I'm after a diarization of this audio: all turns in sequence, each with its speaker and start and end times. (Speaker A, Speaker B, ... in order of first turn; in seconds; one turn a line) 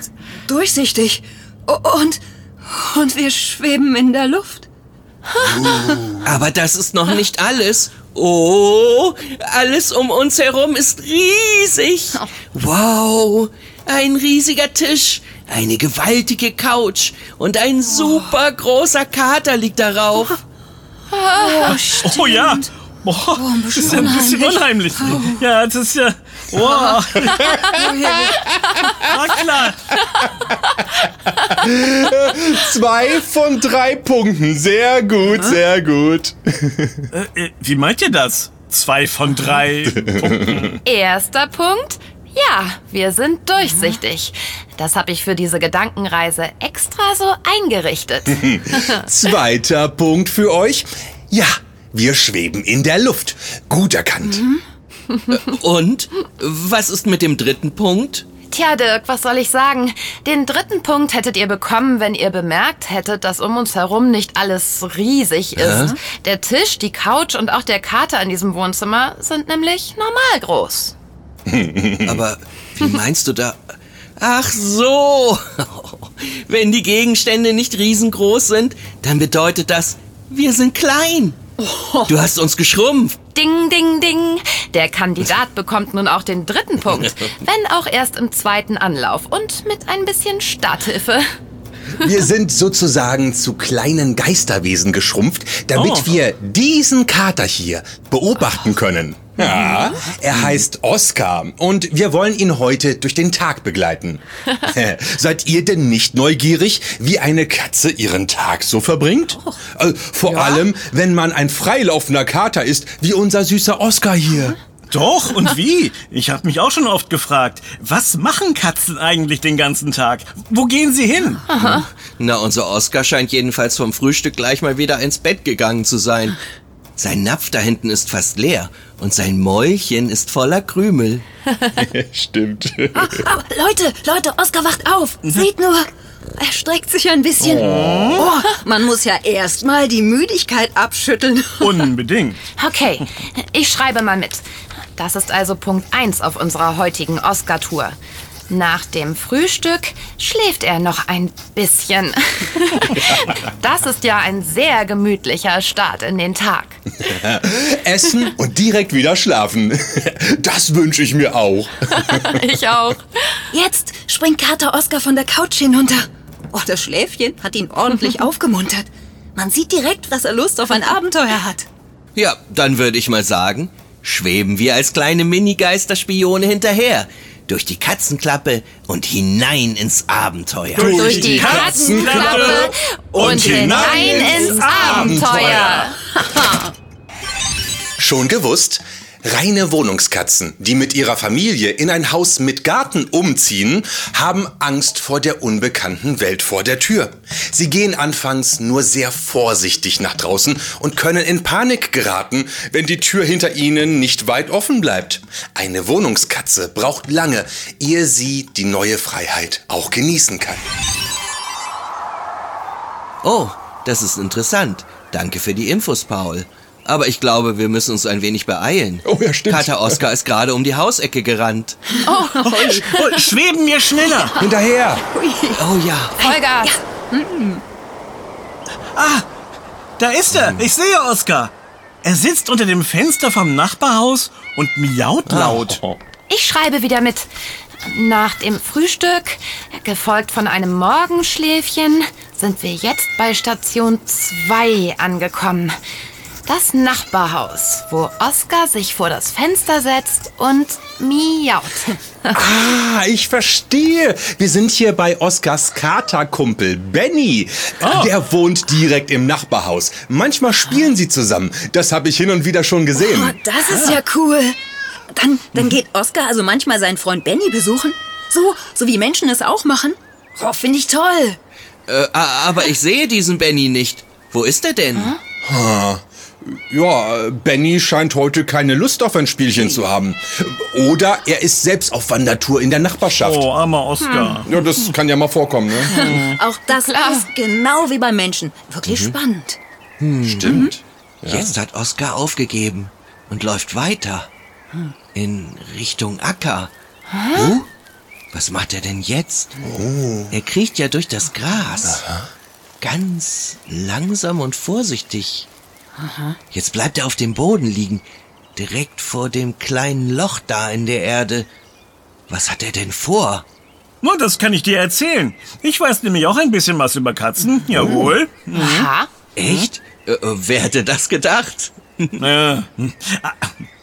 Speaker A: 0.4-4.7
Speaker B: 5.4-5.7
Speaker C: 5.4-6.3
Speaker A: 5.6-6.0
Speaker D: 6.2-20.4
Speaker B: 21.1-21.8
Speaker A: 21.3-22.7
Speaker E: 21.7-27.7
Speaker A: 23.3-25.4
Speaker A: 26.6-27.0
Speaker A: 27.7-28.8
Speaker E: 28.9-30.0
Speaker C: 31.5-37.1
Speaker E: 37.1-40.8
Speaker C: 39.9-40.8
Speaker B: 40.8-49.0
Speaker C: 48.4-54.5
Speaker D: 55.3-58.2
Speaker B: 58.5-70.9
Speaker D: 65.6-66.0
Speaker C: 71.5-72.2
Speaker D: 72.0-81.4
Speaker A: 81.6-82.2
Speaker D: 82.1-83.2
Speaker B: 83.3-91.3
Speaker C: 92.0-114.6
Speaker E: 95.7-96.1
Speaker E: 114.9-121.5
Speaker B: 121.5-121.9
Speaker D: 121.6-126.4
Speaker D: 127.0-131.2
Speaker C: 131.7-133.3
Speaker A: 132.9-135.9
Speaker A: 136.4-141.9
Speaker E: 137.4-138.3
Speaker C: 137.4-138.3
Speaker E: 141.6-142.4
Speaker B: 142.6-144.4
Speaker B: 145.0-148.0
Speaker B: 148.5-156.8
Speaker C: 157.0-162.4
Speaker B: 162.1-163.4
Speaker A: 163.5-171.7
Speaker D: 172.2-181.0
Speaker E: 180.7-185.9
Speaker C: 180.8-185.8
Speaker B: 180.8-186.0
Speaker C: 188.0-210.6
Speaker D: 213.2-221.8
Speaker C: 219.1-220.0
Speaker A: 222.0-223.2
Speaker B: 222.0-223.0
Speaker E: 222.4-224.3
Speaker A: 224.1-224.5
Speaker C: 224.4-225.0
Speaker A: 225.0-227.6
Speaker D: 225.5-226.2
Speaker B: 226.2-226.8
Speaker E: 228.9-229.2
Speaker E: 230.0-231.5
Speaker C: 230.3-230.7
Speaker E: 232.0-235.8
Speaker C: 235.3-236.0
Speaker B: 236.3-237.3
Speaker B: 237.8-245.8
Speaker B: 246.5-252.4
Speaker C: 252.3-263.4
Speaker E: 257.8-258.1
Speaker A: 263.0-264.6
Speaker E: 263.6-264.0
Speaker A: 265.1-271.4
Speaker D: 271.9-275.1
Speaker C: 275.4-283.5
Speaker E: 283.1-284.9
Speaker B: 284.0-284.4
Speaker C: 284.4-286.0
Speaker A: 285.8-289.6
Speaker E: 285.9-286.4
Speaker B: 286.7-287.2
Speaker D: 288.9-289.2
Speaker D: 290.0-290.6
Speaker C: 290.2-291.6
Speaker D: 291.2-294.3
Speaker D: 295.1-296.7
Speaker B: 297.1-297.6
Speaker D: 297.3-297.7
Speaker D: 298.3-299.6
Speaker C: 299.6-300.3
Speaker D: 300.3-302.0
Speaker C: 301.8-302.2
Speaker D: 302.8-305.5
Speaker A: 306.0-306.4
Speaker D: 306.5-308.1
Speaker D: 308.6-311.5
Speaker D: 312.3-313.4
Speaker E: 314.0-318.9
Speaker C: 317.8-318.1
Speaker B: 318.5-319.1
Speaker D: 319.4-322.2
Speaker E: 319.4-319.7
Speaker E: 322.2-323.5